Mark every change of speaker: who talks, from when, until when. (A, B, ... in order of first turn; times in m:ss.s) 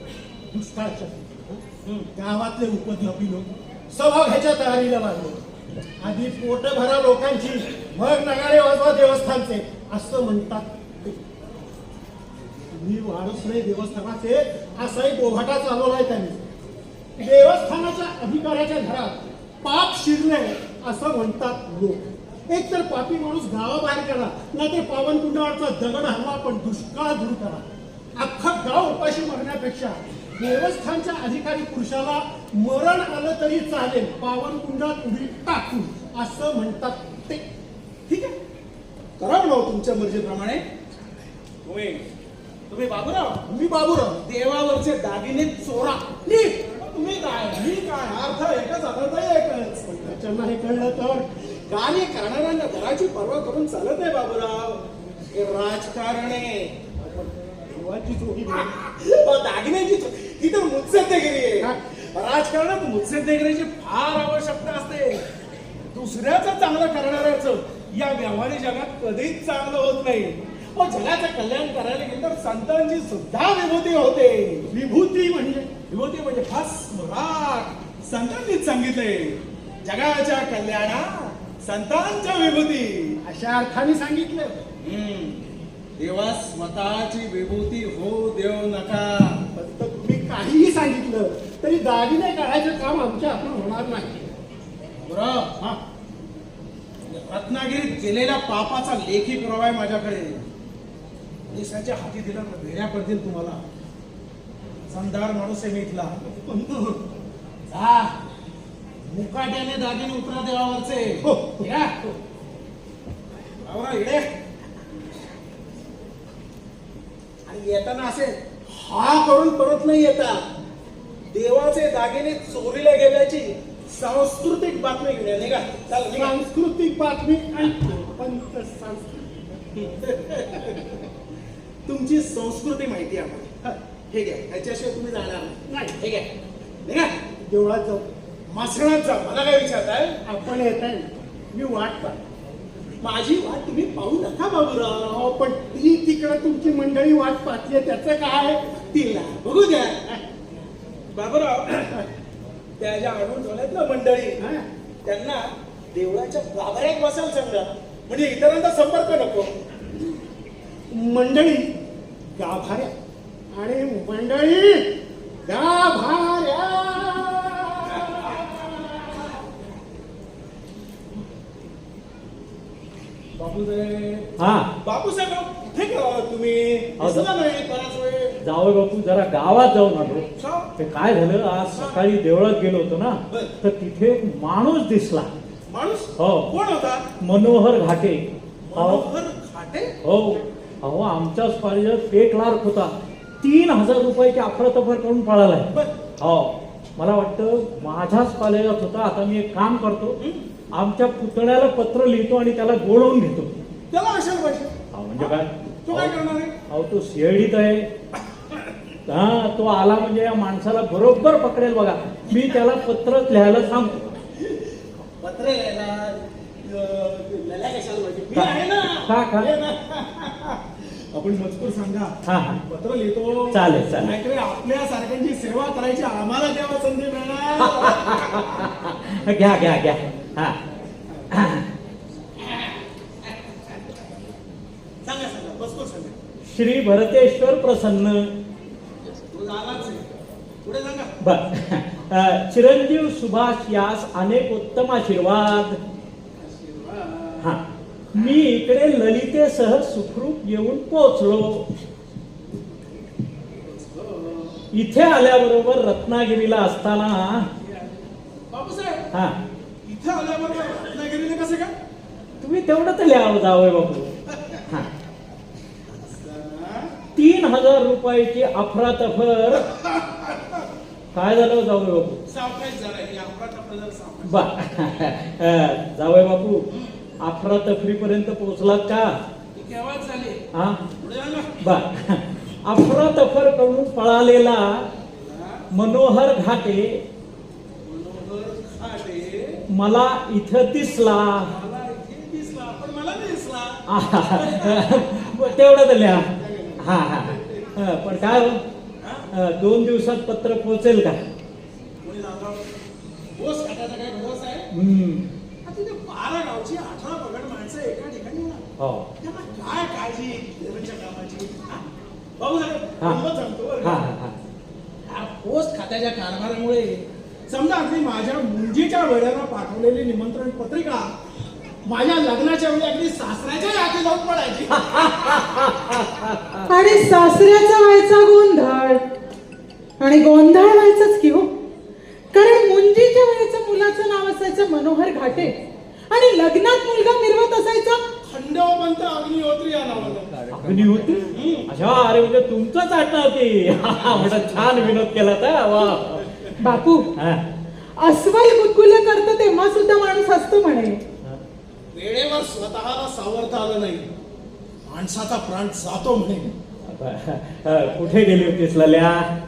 0:00.5-0:01.6 A
0:02.1-0:05.4 A
0:06.0-0:11.2 A
0:12.7-0:16.4 A
0:17.2-0:27.6 A
0:28.2-0:37.4 A
0:38.1-0:38.3 B
0:39.2-0:40.6 B
0:41.6-0:42.0 B
0:42.7-0:43.5 B
0:43.5-0:44.2 A
0:44.2-0:50.0 B
0:50.0-0:51.2 A
0:51.7-0:57.0 B
0:57.8-0:58.6 A
0:58.5-1:05.2 B
1:05.9-1:14.7 B
1:14.7-1:15.7 A
1:15.9-1:23.2 B
1:23.2-1:24.6 A
1:24.8-1:29.4 B
1:29.5-1:34.3 A
1:35.0-1:35.5 B
1:37.1-1:40.5 B
1:41.5-1:43.6 B
1:44.9-1:46.1 B
1:46.3-1:47.0 A
1:47.7-1:48.1 B
1:49.0-1:52.1 B
1:51.2-1:51.7 A
1:53.6-1:54.2 B
1:57.5-2:00.4 B
2:01.3-2:06.4 B
2:06.1-2:09.3 A
2:09.8-2:11.0 B
2:11.8-2:13.5 B
2:14.1-2:16.3 B
2:15.7-2:16.0 A
2:16.8-2:17.2 B
2:17.4-2:18.1 A
2:18.5-2:20.2 B
2:20.2-2:22.2 A
2:23.0-2:25.3 B
2:25.2-2:28.6 A
2:28.8-2:30.0 B
2:31.1-2:32.0 B
2:32.8-2:34.4 B
2:34.4-2:34.6 A
2:35.0-2:39.5 B
2:40.9-2:41.7 A
2:42.4-2:42.9 A
2:43.5-2:44.9 A
2:45.5-2:48.4 A
2:53.4-2:54.3 B
2:54.4-2:54.7 C
2:54.8-2:58.4 B
2:57.0-2:57.3 C
2:58.4-3:05.3 C
3:00.4-3:00.7 B
3:01.6-3:02.0 B
3:05.7-3:07.1 B
3:06.2-3:06.5 C
3:07.2-3:08.2 C
3:08.7-3:09.9 B
3:08.7-3:09.0 C
3:10.0-3:20.2 C
3:20.7-3:23.5 C
3:23.9-3:26.5 B
3:24.9-3:27.9 C
3:29.1-3:34.2 C
3:32.3-3:32.6 B
3:34.4-3:48.7 B
3:39.0-3:39.5 C
3:42.2-3:42.6 C
3:43.5-3:44.2 C
3:47.6-3:50.6 C
3:51.3-3:51.7 C
3:52.4-3:53.7 B
3:55.0-3:56.2 B
3:56.5-3:58.3 C
3:59.3-4:00.0 B
4:00.6-4:01.1 B
4:01.2-4:05.8 C
4:06.4-4:07.5 B
4:08.1-4:11.7 C
4:13.6-4:14.5 B
4:14.7-4:17.5 C
4:17.6-4:17.9 B
4:18.5-4:19.1 B
4:19.8-4:21.7 B
4:22.4-4:24.1 C
4:25.9-4:26.9 B
4:27.1-4:29.6 C
4:29.9-4:30.6 B
4:31.1-4:32.2 C
4:32.3-4:34.9 B
4:34.2-4:36.6 C
4:37.2-4:39.2 C
4:39.5-4:40.4 B
4:40.5-4:40.8 C
4:41.0-4:41.6 B
4:41.6-4:44.8 C
4:45.1-4:45.6 B
4:45.7-4:47.0 C
4:47.8-4:49.6 B
4:49.7-4:51.5 C
4:51.4-4:55.5 B
4:53.9-4:56.3 C
4:56.0-4:57.7 B
4:56.8-4:58.6 C
4:59.0-4:59.3 B
4:59.3-5:01.2 C
5:02.0-5:02.7 B
5:03.4-5:04.7 B
5:04.7-5:05.3 C
5:05.6-5:08.6 B
5:08.8-5:09.1 C
5:09.2-5:11.8 B
5:12.4-5:14.0 B
5:13.8-5:14.4 C
5:15.0-5:21.1 B
5:21.8-5:25.5 B
5:24.8-5:26.6 C
5:26.6-5:29.0 D
5:30.0-5:31.5 D
5:32.3-5:35.5 D
5:36.1-5:38.0 D
5:38.2-5:40.3 B
5:40.5-5:47.4 C
5:41.3-5:41.7 B
5:43.8-5:45.1 B
5:46.6-5:47.1 D
5:48.0-5:51.0 D
5:51.9-5:54.1 B
5:54.9-5:56.5 B
5:56.9-5:59.3 C